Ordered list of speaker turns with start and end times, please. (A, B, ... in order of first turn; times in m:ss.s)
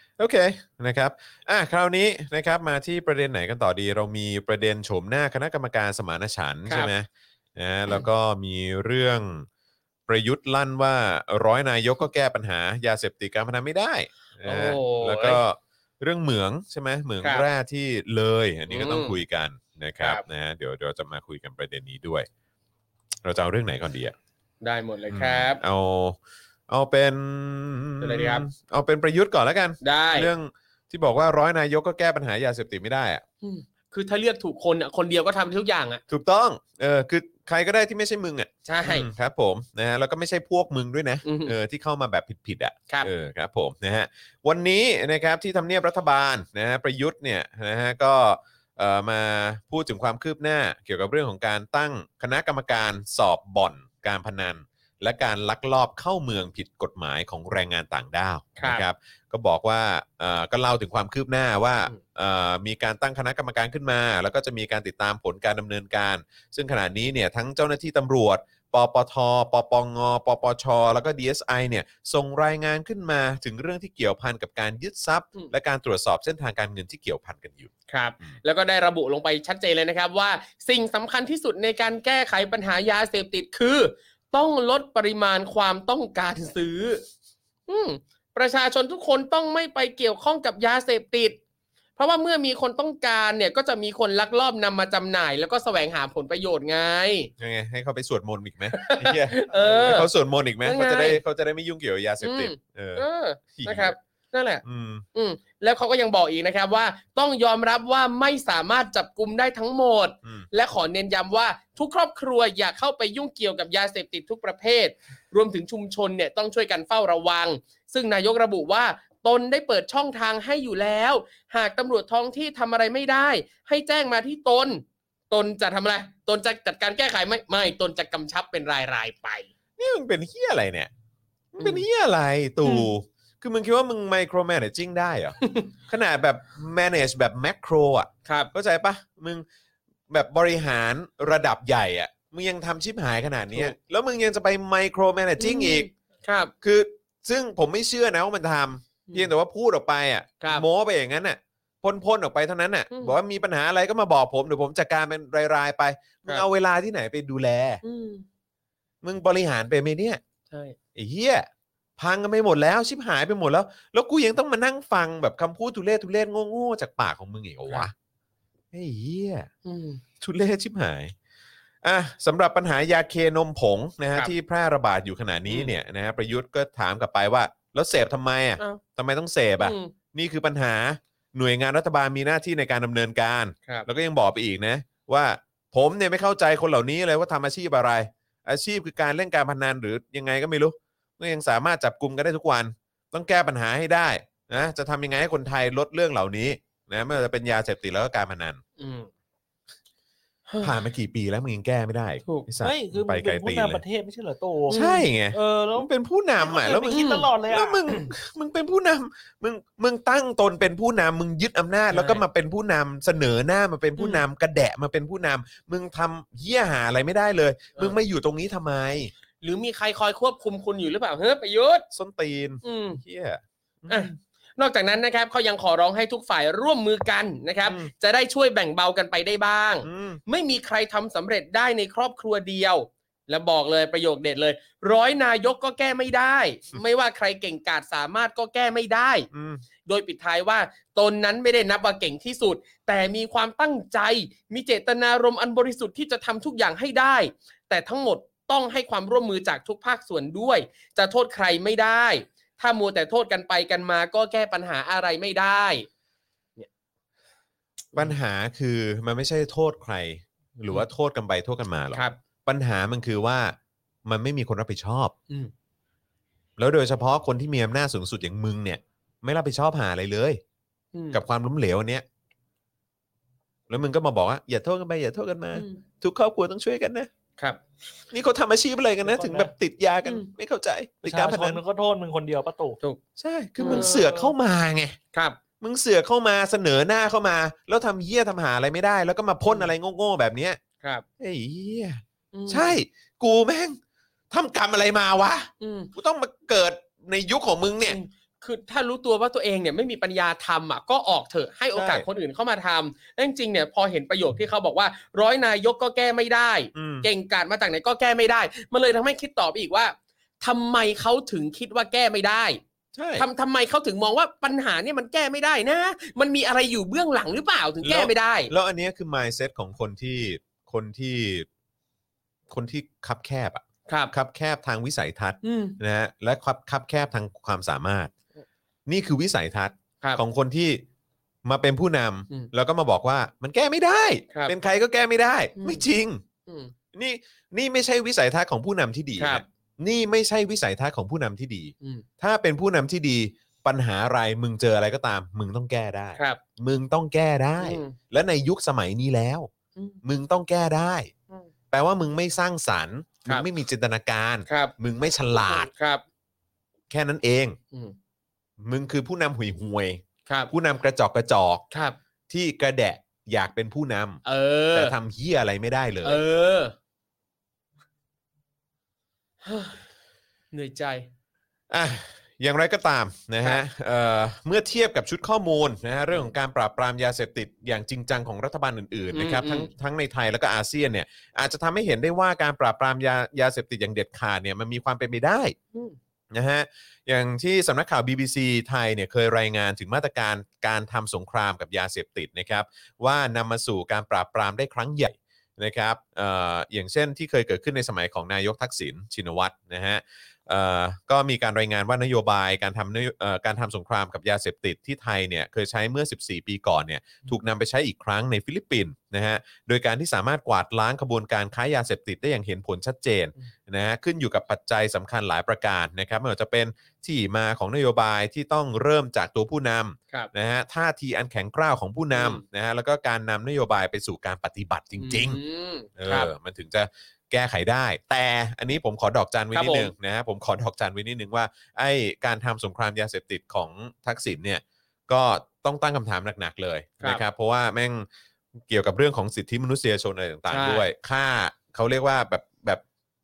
0:00.2-0:09.5 A
0:10.1-0:22.3 A
0:14.4-0:15.4 B
0:18.7-0:19.2 B
0:23.2-0:24.1 A
0:24.6-0:25.6 B
0:25.1-0:26.2 A
0:26.7-0:33.2 A
0:28.0-0:28.4 B
0:29.8-0:30.3 B
0:33.4-0:36.0 B
0:36.1-1:17.7 A
0:38.6-0:39.1 B
0:41.2-0:41.5 B
0:58.6-0:58.8 B
1:17.9-1:27.0 B
1:27.7-1:31.4 B
1:32.0-1:37.3 B
1:37.4-1:43.9 A
1:38.7-1:40.1 B
1:40.6-1:41.2 B
1:42.2-1:44.6 B
1:44.6-1:45.0 A
1:45.1-2:09.5 B
2:09.8-2:10.9 A
2:11.5-2:19.4 A
2:11.6-2:11.8 B
2:12.6-2:12.9 B
2:15.4-2:15.7 B
2:18.2-2:18.5 B
2:20.1-2:25.9 A
2:25.4-2:26.5 B
2:26.6-2:37.8 A
2:32.9-2:33.2 B
2:37.8-2:38.2 B
2:39.0-2:40.2 A
2:40.5-2:40.8 B
2:40.9-2:47.9 A
2:48.7-2:49.5 A
2:49.6-2:50.0 B
2:50.2-2:51.1 A
2:51.8-3:18.6 A
2:55.5-2:55.7 B
2:59.6-2:59.9 B
3:18.8-3:19.1 B
3:20.6-3:23.8 A
3:22.6-3:27.8 C
3:24.7-3:25.1 B
3:24.7-3:39.1 A
3:26.9-3:27.3 B
3:31.9-3:32.2 B
3:34.0-3:34.2 B
3:39.4-3:41.8 B
3:41.9-3:44.1 A
3:42.6-3:43.0 B
3:43.9-3:59.3 B
3:47.6-3:47.9 A
3:49.8-3:50.2 A
3:59.3-3:59.6 A
3:59.8-4:15.9 B
4:17.9-4:25.1 A
4:26.6-4:30.4 A
4:30.9-4:31.2 B
4:31.1-4:32.0 A
4:33.7-4:37.1 A
4:35.5-4:35.8 B
4:38.1-4:41.6 A
4:39.0-4:39.5 C
4:40.0-4:40.3 B
4:41.0-4:42.8 C
4:43.2-4:45.0 A
4:43.6-4:44.1 B
4:43.6-4:44.2 C
4:45.1-4:45.4 B
4:45.6-4:50.6 A
4:49.4-4:49.7 B
4:51.2-4:53.8 A
4:52.3-4:52.8 B
4:54.3-4:58.0 A
4:55.6-4:55.9 B
4:57.8-5:12.6 B
5:01.7-5:02.0 A
5:06.7-5:07.1 A
5:12.9-5:13.2 A
5:13.2-5:18.5 B
5:17.8-5:21.5 A
5:22.5-5:28.1 A
5:23.9-5:24.1 B
5:25.4-5:25.8 B
5:28.9-5:30.8 A
5:31.4-5:36.2 A
5:35.6-5:35.8 B
5:36.4-5:36.7 B
5:36.9-5:49.5 A
5:39.2-5:39.4 B
5:41.8-5:42.0 B
5:47.6-5:48.0 B
5:49.8-5:50.0 B
5:50.0-5:51.1 A
5:51.7-5:55.7 A
5:54.5-5:54.7 B
5:55.4-5:56.0 B
5:56.9-5:57.6 A
5:58.6-6:01.6 A
6:00.3-6:00.5 B
6:01.7-6:02.0 B
6:02.3-6:04.2 A
6:04.2-6:04.9 B
6:04.7-6:06.2 A
6:06.0-6:06.7 B
6:09.4-6:09.8 B
6:10.5-6:11.1 B
6:11.7-6:25.5 A
6:19.1-6:19.7 B
6:26.3-7:05.4 A
7:02.1-7:02.4 B
7:05.0-7:06.3 B
7:06.0-7:18.1 A
7:09.5-7:09.9 B
7:18.7-7:22.8 A
7:20.5-7:20.9 B